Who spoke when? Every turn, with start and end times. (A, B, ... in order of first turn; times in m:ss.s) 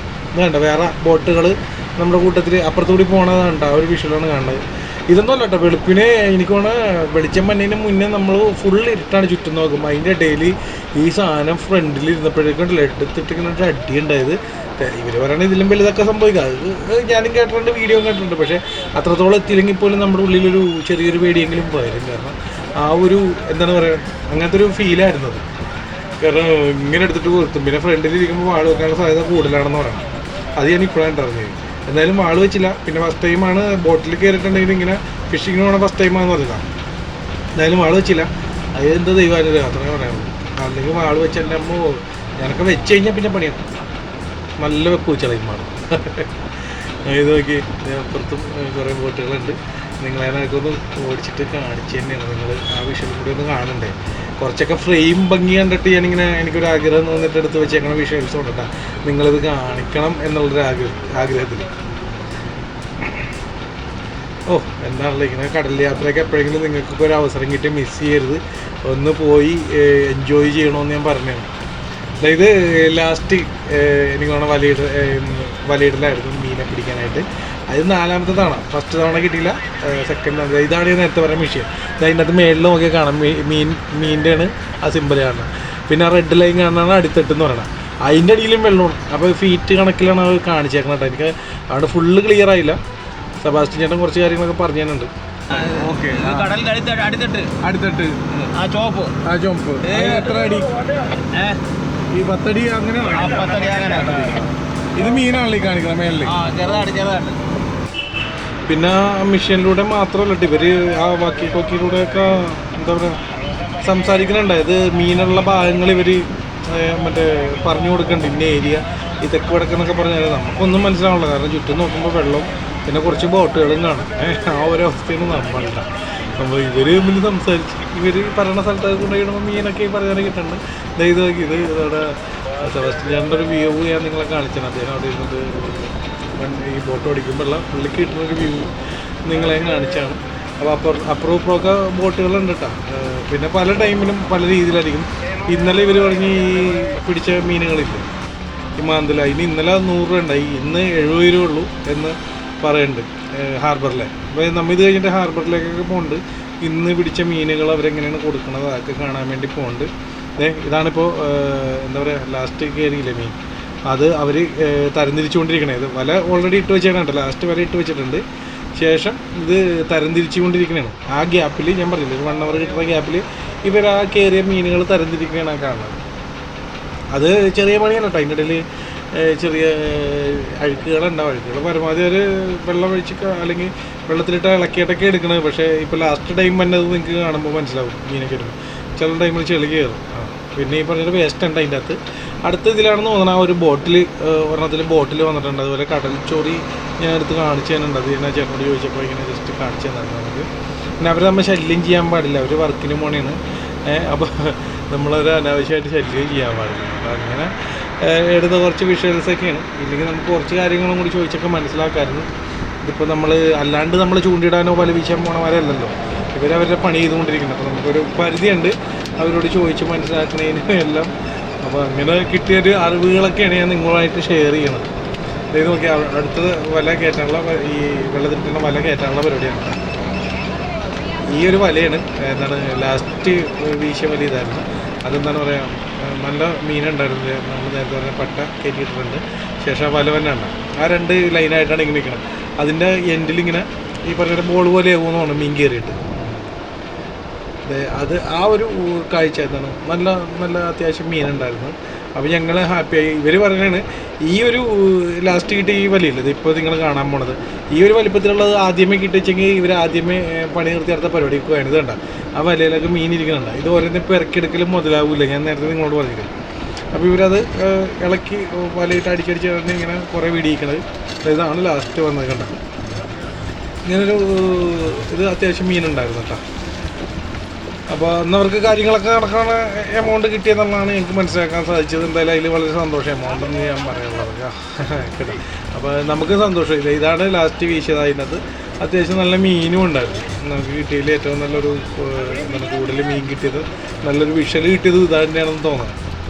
0:00.3-0:25.4 A
0:26.2-0:36.6 A
0:37.6-0:43.6 A
0:44.6-0:46.3 A
0:47.0-1:01.7 A
1:04.5-1:11.5 A
1:12.2-1:32.8 A
1:33.4-1:35.1 A
1:35.5-1:37.5 B
1:35.7-1:36.5 A
1:37.6-1:38.5 A
1:38.5-1:39.1 B
1:39.2-1:40.7 A
1:39.8-1:40.3 B
1:41.3-1:41.6 B
1:42.1-1:44.4 A
1:43.1-1:44.4 B
1:44.9-1:46.3 A
1:46.2-1:47.4 B
1:48.7-1:53.2 A
1:53.8-2:18.7 A
2:19.2-2:28.0 A
2:28.8-2:43.3 A
2:43.9-2:48.2 A
2:48.8-2:56.0 A
2:57.1-3:20.5 A
3:21.0-3:32.3 A
3:32.8-3:41.1 A
3:41.6-3:44.9 A
3:45.5-3:49.8 A
3:51.3-4:06.5 A
4:07.6-4:26.3 A
4:26.9-4:32.6 A
4:33.8-4:36.4 A
4:37.9-4:56.0 A